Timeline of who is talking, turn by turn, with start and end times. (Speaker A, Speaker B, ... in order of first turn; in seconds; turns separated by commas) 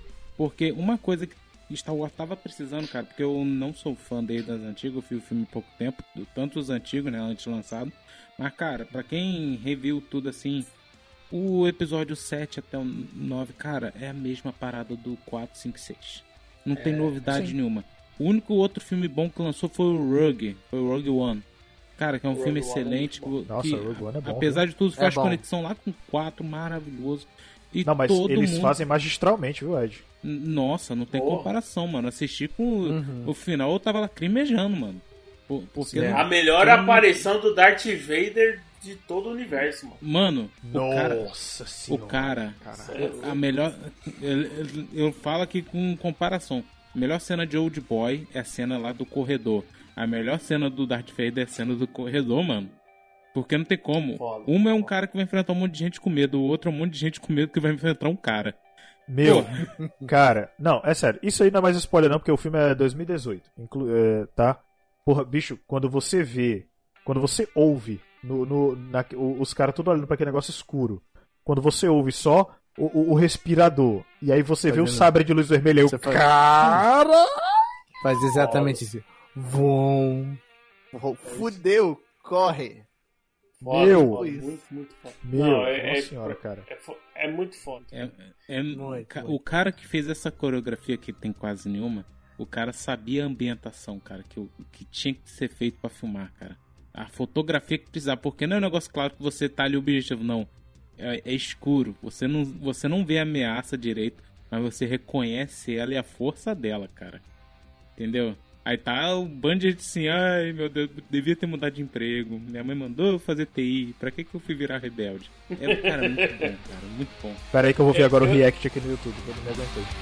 Speaker A: 0.4-10.7, Speaker A: 11.3-21.4, Speaker B: 16.7-17.2, Speaker A: 22.0-28.8, Speaker B: 22.3-23.4, Speaker C: 23.5-24.6, Speaker D: 25.0-25.4, Speaker C: 27.9-30.0, Speaker A: 30.2-37.3, Speaker B: 31.1-31.5, Speaker D: 32.9-33.3, Speaker C: 35.8-36.2, Speaker D: 36.0-36.3, Speaker B: 36.1-40.0, Speaker A: 40.0-41.3, Speaker C: 40.6-43.0, Speaker A: 41.9-52.8, Speaker B: 42.7-43.4, Speaker A: 53.3-58.6, Speaker B: 54.1-54.9, Speaker C: 59.1-59.5, Speaker A: 59.2-59.7, Speaker D: 59.3-60.0, Speaker C: 60.0-77.2, Speaker D: 74.7-75.1, Speaker D: 75.9-76.8, Speaker D: 78.0-82.9, Speaker B: 78.3-78.8, Speaker B: 81.2-81.6, Speaker B: 83.6-87.9, Speaker D: 83.6-84.6, Speaker C: 83.7-84.2, Speaker C: 85.2-86.7, Speaker A: 87.9-107.2, Speaker D: 88.7-89.4, Speaker A: 108.0-117.4, Speaker B: 115.6-116.5, Speaker C: 117.5-119.9, Speaker B: 117.9-118.4